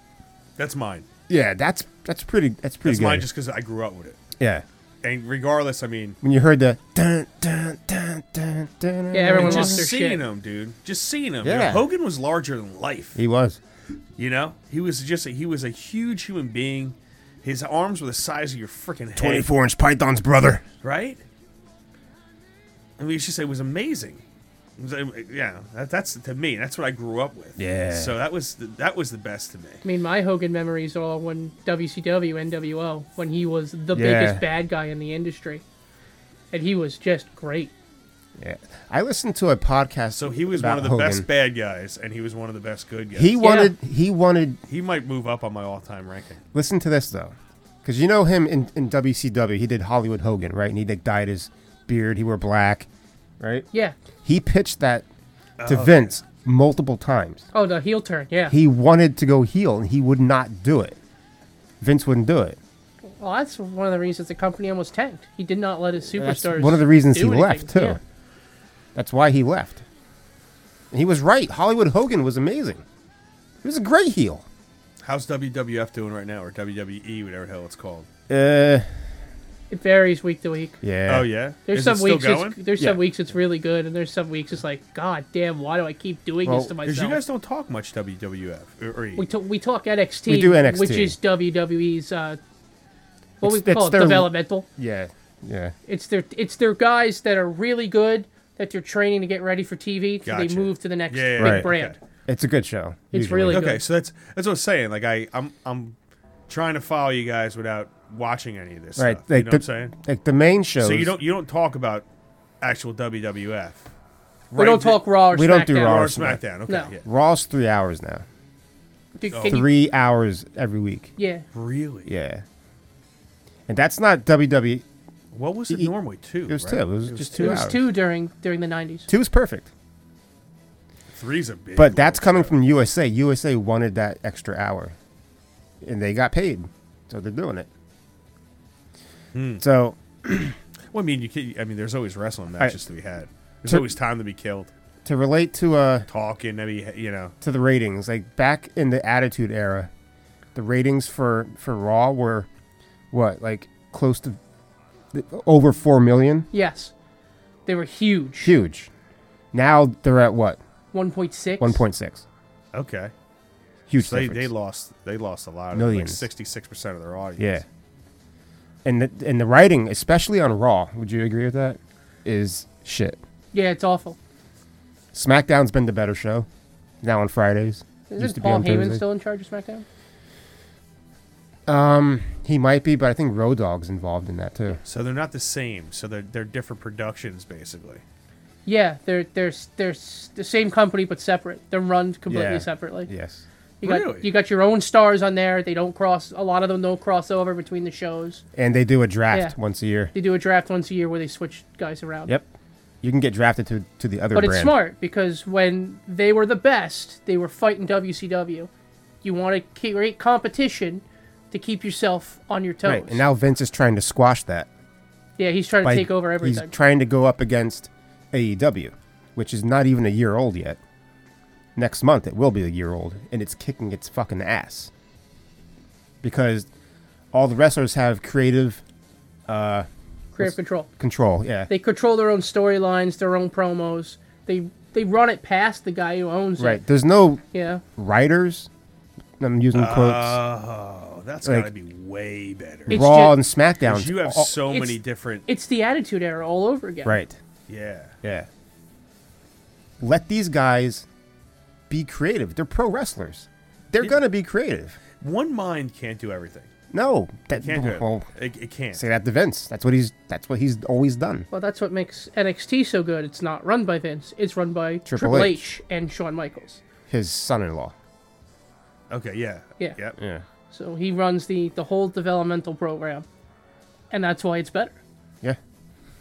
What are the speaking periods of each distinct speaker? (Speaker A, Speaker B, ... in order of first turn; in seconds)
Speaker A: 0.6-1.1, 2.9-4.2, 5.0-6.2, 9.4-13.2, 14.2-19.5, 20.8-21.2, 23.0-24.2, 24.8-29.8, 40.1-43.3, 44.7-46.4, 55.6-56.1, 75.0-78.1, 81.1-82.6, 86.8-89.3, 100.2-102.0, 103.5-106.0, 106.5-109.9, 110.8-112.1, 112.6-113.8, 114.5-115.0, 115.8-117.0, 119.3-119.6, 121.5-122.1, 125.3-127.7, 131.1-132.6, 139.3-139.6, 140.9-144.7, 146.1-147.3, 162.7-163.1, 164.0-167.6, 184.8-188.0, 193.8-194.3, 239.7-243.0, 243.8-245.5, 247.7-248.2, 255.2-256.7, 257.6-259.0, 269.1-270.2
Speaker B: 1.3-3.3, 4.4-4.7, 6.2-9.8, 11.4-11.9, 13.2-13.6, 19.2-20.6, 27.6-28.2, 33.9-34.4, 38.4-41.3, 43.1-44.6, 46.5-52.9, 53.4-53.7, 54.2-55.1, 55.7-57.5, 58.5-61.0, 61.8-62.6, 66.1-68.0, 69.0-69.8, 70.9-72.8, 73.6-74.5, 78.3-78.9, 80.8-81.3, 86.5-86.7, 90.3-91.2, 93.4-95.7, 101.4-101.7, 102.3-103.8, 109.0-111.1, 115.3-116.4, 117.0-118.2, 119.5-121.1, 122.1-122.4, 123.7-124.8, 126.5-127.9, 129.1-129.7, 131.8-134.9, 135.8-137.7, 139.6-140.6, 145.1-146.1, 147.4-149.9, 150.6-152.5, 153.1-154.4, 155.1-156.5, 158.4-158.9, 159.5-160.6, 161.6-162.2, 163.9-164.5, 165.7-166.3, 167.4-167.7, 168.8-173.2, 175.1-176.5, 177.0-179.0, 181.7-184.8, 192.3-193.4, 198.6-200.1, 203.0-204.8, 212.8-214.7, 215.8-220.8, 221.8-224.9, 226.2-226.7, 227.3-228.8, 229.5-229.9, 230.4-231.7, 236.6-237.4, 237.9-238.7, 239.4-240.4, 241.4-241.7, 242.9-244.5, 247.1-247.4, 248.2-248.5, 250.0-251.1, 251.9-255.0, 256.9-258.3, 258.9-261.5, 265.1-265.6, 267.1-267.9, 270.2-270.4
Speaker C: 9.1-10.2, 29.8-35.6, 36.5-37.7, 43.4-43.7, 57.5-58.5, 63.2-68.0, 79.7-80.8, 81.7-87.2, 89.2-92.4, 93.4-94.7, 95.9-102.0, 103.1-103.8, 114.6-116.9, 119.2-119.7, 121.2-121.4, 127.4-129.1, 156.5-156.9, 157.7-158.5, 160.9-161.8, 173.5-174.2, 178.1-179.8, 188.7-193.1, 193.8-198.4, 200.1-202.3, 204.3-208.7, 209.2-213.2, 215.4-216.7, 230.3-230.9, 231.7-236.8, 237.5-237.8, 242.9-243.4, 244.7-247.2, 261.5-266.8, 270.7-273.3, 274.1-275.0